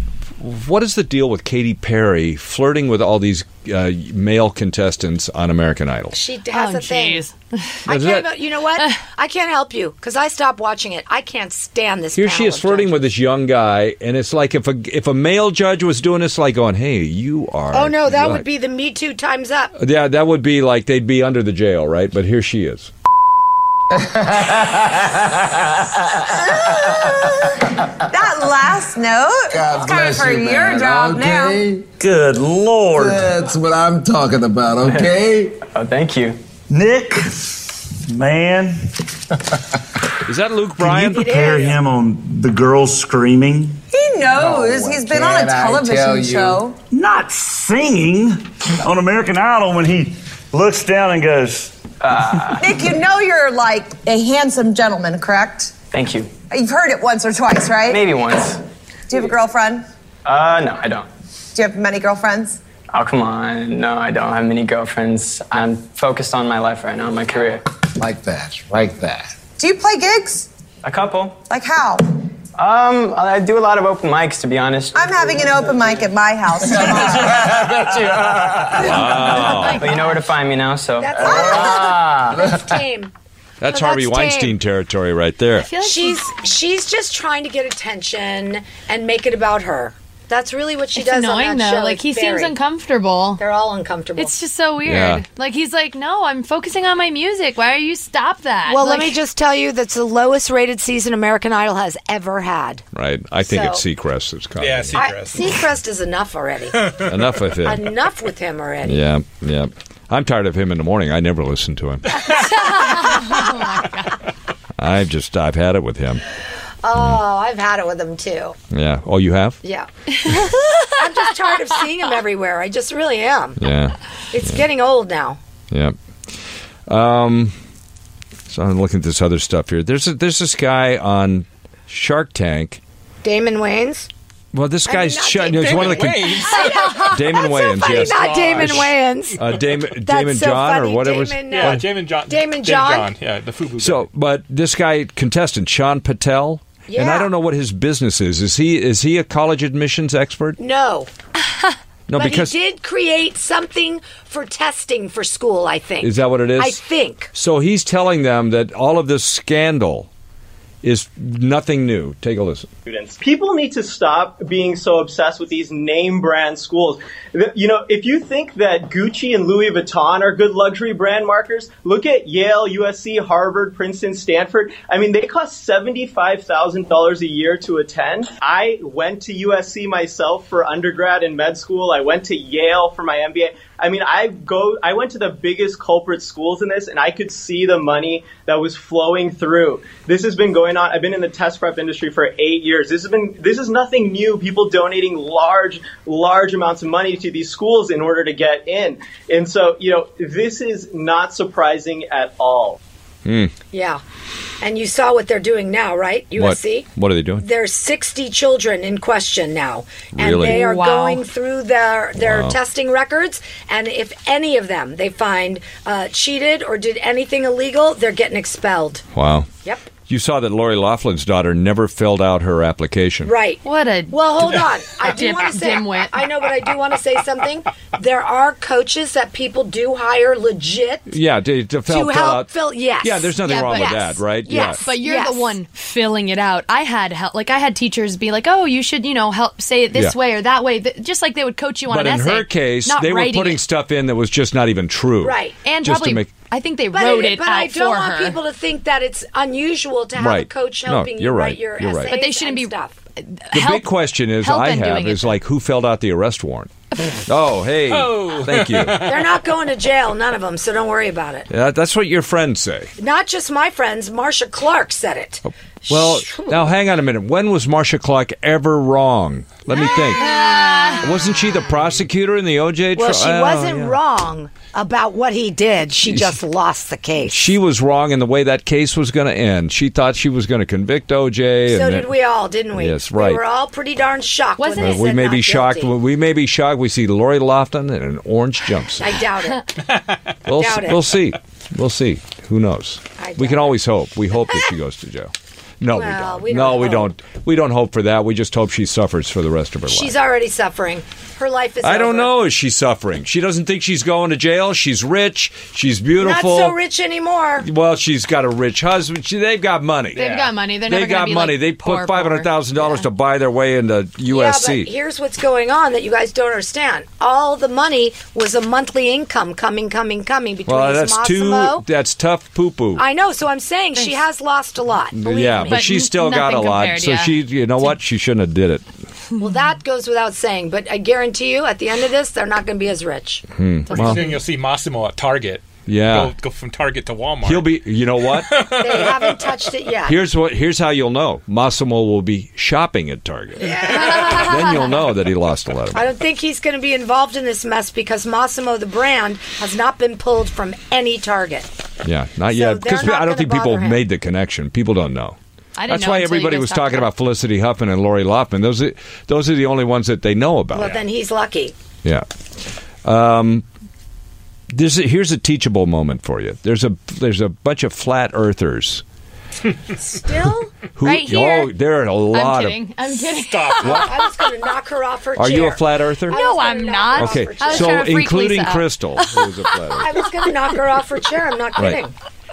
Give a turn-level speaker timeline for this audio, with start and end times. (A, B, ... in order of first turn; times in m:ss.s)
0:00.4-0:06.2 A
0:06.1-0:07.2 B
0:06.5-0:07.8 C
0:07.9-0:13.0 B
0:07.9-0:08.3 A
0:12.2-0:18.4 A
0:17.7-0:19.7 B
0:19.8-0:22.9 A
0:26.4-0:26.9 D
0:28.0-0:31.7 D
0:29.8-0:31.8 E
0:32.0-0:33.6 F
0:33.0-0:35.6 E
0:34.8-0:36.4 G
0:36.7-0:39.0 F
0:40.2-0:41.2 A
0:40.8-0:43.8 F
0:40.9-0:41.8 B
0:43.9-0:46.8 D
0:45.4-0:46.3 E
0:46.9-0:51.8 F
0:52.0-0:52.7 G
0:52.6-0:55.7 D
0:55.9-0:56.4 G
0:56.5-0:58.2 D
0:57.9-0:58.6 G
0:59.1-0:59.9 D
1:00.2-1:01.1 G
1:01.6-1:02.6 D
1:02.9-1:07.6 G
1:08.0-1:09.4 E
1:09.5-1:10.5 D
1:10.8-1:11.5 G
1:11.5-1:12.0 D
1:12.6-1:16.1 G
1:14.9-1:17.3 D
1:16.7-1:22.4 G
1:17.2-1:18.0 E
1:18.8-1:19.8 A
1:19.3-1:20.2 C
1:21.0-1:23.1 B
1:23.6-1:25.7 A
1:23.7-1:24.6 B
1:25.6-1:26.3 C
1:25.8-1:32.6 B
1:31.0-1:33.4 C
1:33.4-1:34.3 B
1:34.2-1:39.2 C
1:34.8-1:35.2 A
1:38.7-1:42.8 B
1:42.9-1:45.6 A
1:43.4-1:43.8 B
1:44.6-1:45.6 H
1:44.9-1:46.9 B
1:46.8-1:47.1 H
1:47.1-1:47.8 A
1:47.6-1:49.0 B
1:48.8-1:52.2 A
1:52.3-1:54.2 C
1:54.8-1:56.2 A
1:56.8-1:58.6 B
1:56.9-1:57.2 A
1:58.7-1:59.6 A
1:59.6-2:00.4 B
2:00.3-2:00.8 C
2:01.0-2:03.6 B
2:03.6-2:04.6 A
2:04.3-2:05.4 B
2:06.9-2:07.6 A
2:08.5-2:12.8 A
2:13.2-2:14.1 B
2:14.5-2:21.8 A
2:14.8-2:23.1 B
2:15.6-2:17.2 H
2:17.8-2:18.9 H
2:21.5-2:24.0 H
2:23.8-2:30.6 A
2:26.9-2:27.3 B
2:30.6-2:31.1 B
2:32.1-2:32.5 A
2:32.2-2:37.3 B
2:36.0-2:36.8 A
2:37.3-2:40.1 A
2:40.8-2:42.7 A
2:42.9-3:22.8 I
3:23.2-3:23.5 A
3:23.7-3:24.0 B
3:24.6-3:39.0 B
3:26.4-3:27.4 A
3:30.1-3:30.6 A
3:30.5-3:31.2 C
3:32.2-3:32.6 A
3:39.2-3:39.5 A
3:40.1-3:43.3 A
3:43.2-3:51.1 B
3:43.6-3:44.2 C
3:45.0-3:46.3 C
3:51.1-3:54.8 A
3:51.9-3:55.6 B
3:53.4-4:03.6 C
4:01.9-4:06.3 A
4:05.2-4:05.6 B
4:05.6-4:08.4 C
4:06.9-4:13.0 B
4:10.1-4:12.1 A
4:12.1-4:15.4 C
4:13.5-4:16.7 A
4:17.3-4:19.1 A
4:17.9-4:19.4 H
4:19.0-4:21.5 B
4:21.5-4:22.9 A
4:23.0-4:26.8 B
4:25.9-4:30.4 A
4:30.0-4:30.9 B
4:30.1-4:31.1 C
4:31.0-4:34.0 A
4:33.0-4:37.6 B
4:36.0-4:36.4 A
4:37.2-4:42.1 A
4:41.7-4:45.9 B
4:42.7-4:43.4 A
4:44.6-4:45.1 C
4:44.8-4:49.1 A
4:49.0-4:49.7 B
4:49.9-4:50.2 H
4:50.5-5:00.1 A
4:50.6-4:51.1 B
4:53.2-4:53.8 B
4:55.9-4:57.1 B
4:59.9-5:02.3 B
5:01.8-5:06.8 A
5:06.2-5:07.6 B
5:07.6-5:10.3 A
5:10.1-5:10.5 H
5:10.1-5:13.1 C
5:10.9-5:14.9 A
5:14.3-5:21.9 B
5:20.6-5:23.0 A
5:23.0-5:25.9 B
5:24.0-5:24.2 C
5:25.1-5:28.9 A
5:25.6-5:28.0 C
5:29.4-5:34.4 B
5:33.5-5:34.2 A
5:33.9-5:37.7 H
5:35.9-5:36.3 A
5:37.4-5:38.6 A
5:38.2-5:39.5 H
5:38.7-5:40.2 B
5:40.1-5:46.0 A
5:43.6-5:44.6 B
5:45.9-5:51.7 B
5:52.0-6:01.0 A
5:52.5-5:54.0 B
5:55.8-5:57.1 C
6:00.7-6:01.7 B
6:03.0-6:03.6 A
6:04.7-6:09.0 A
6:09.9-6:10.8 B
6:11.0-6:12.8 A
6:11.0-6:11.8 C
6:12.3-6:14.1 C
6:13.3-6:14.1 H
6:13.8-6:18.1 B
6:13.8-6:14.1 A
6:15.4-6:16.4 A
6:16.3-6:19.5 C
6:17.1-6:20.1 A
6:20.0-6:22.1 B
6:21.8-6:22.0 A